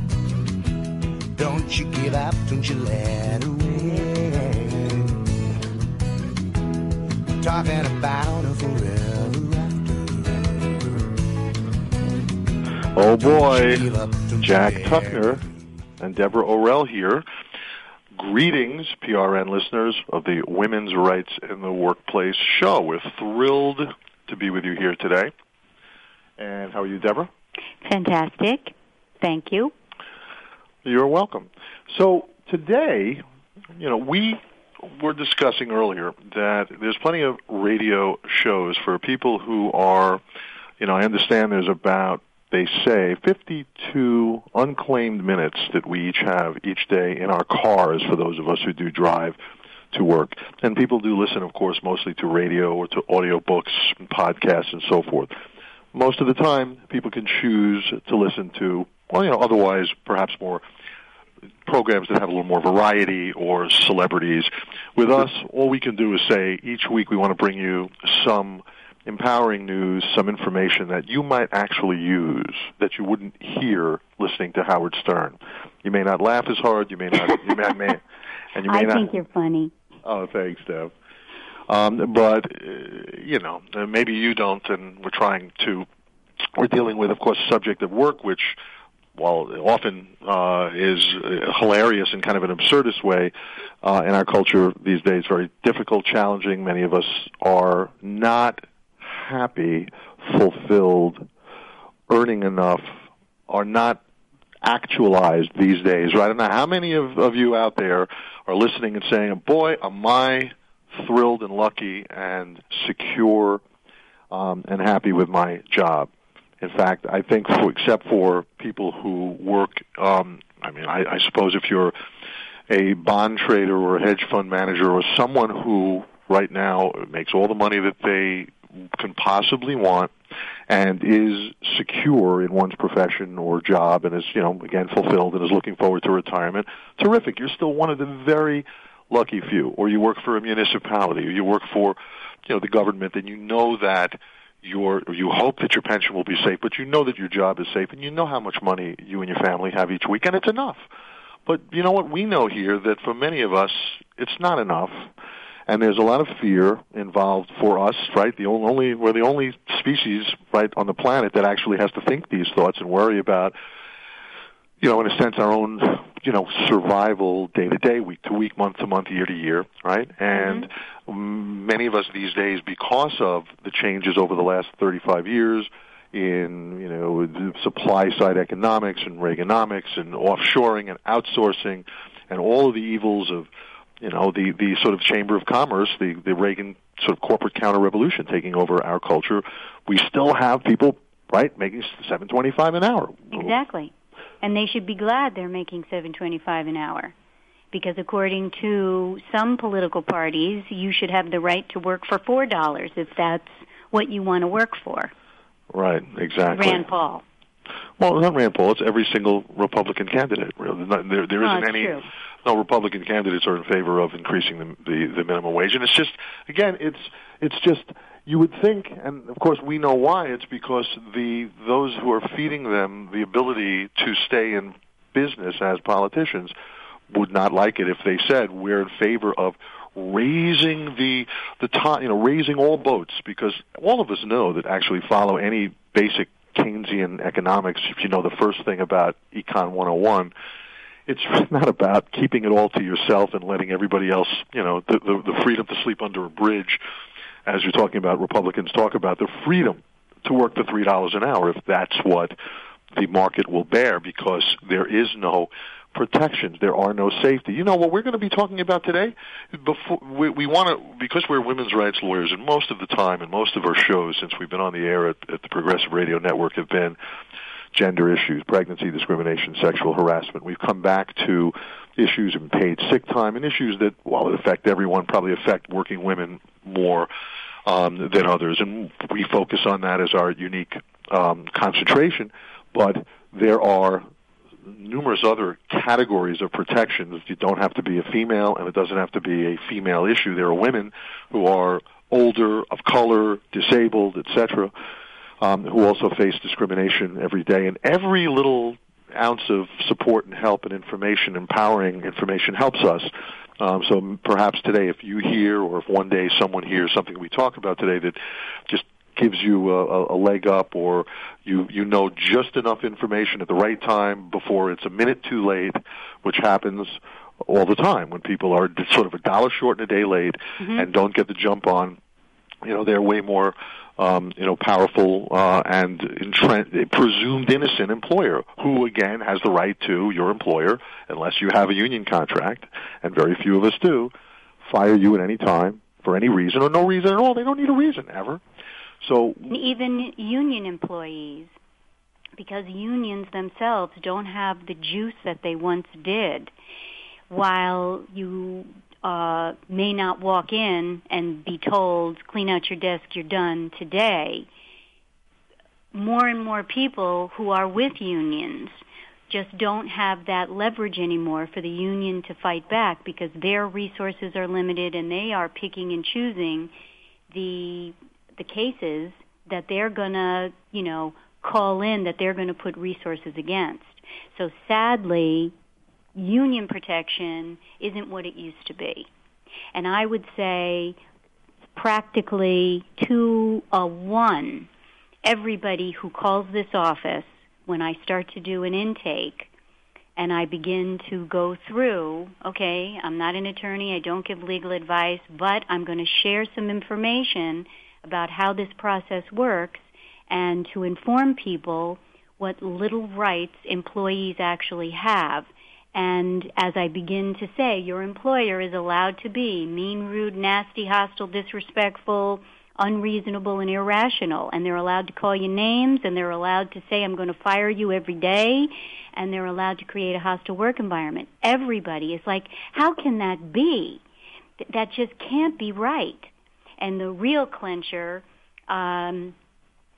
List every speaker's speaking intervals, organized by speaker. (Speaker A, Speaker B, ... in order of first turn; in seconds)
Speaker A: 1.4-5.3, 7.4-10.8, 13.0-15.4
Speaker B: 12.9-13.8, 14.4-15.4, 16.0-17.2, 18.1-25.3, 26.4-27.3, 30.8-33.2, 33.7-40.2, 40.8-49.4, 49.9-55.3, 55.9-60.6, 61.6-79.1, 80.0-80.9, 81.7-85.8, 86.5-88.6, 89.1-101.2, 102.1-103.0, 103.5-104.0, 104.6-113.6, 114.3-121.9, 122.7-130.1, 130.7-150.8, 151.4-155.1, 155.7-163.5, 164.8-193.5, 205.7-206.8, 208.0-226.5, 227.1-240.3, 241.1-246.8, 247.4-252.3, 252.9-266.9, 267.7-277.1, 277.6-284.0, 284.6-294.7, 295.4-322.0, 322.6-334.1, 334.6-338.4, 339.0-339.5
Speaker C: 27.8-29.7, 77.2-77.5, 78.7-79.7, 170.3-170.7, 193.3-197.1, 197.7-205.1, 206.5-207.2, 211.4-212.1, 320.6-320.9, 339.5-341.5, 342.4-346.5, 347.3-354.5, 355.9-366.7, 367.3-375.5, 376.1-379.1, 379.7-380.9, 381.7-384.7, 385.2-389.5, 390.2-424.0, 424.6-429.3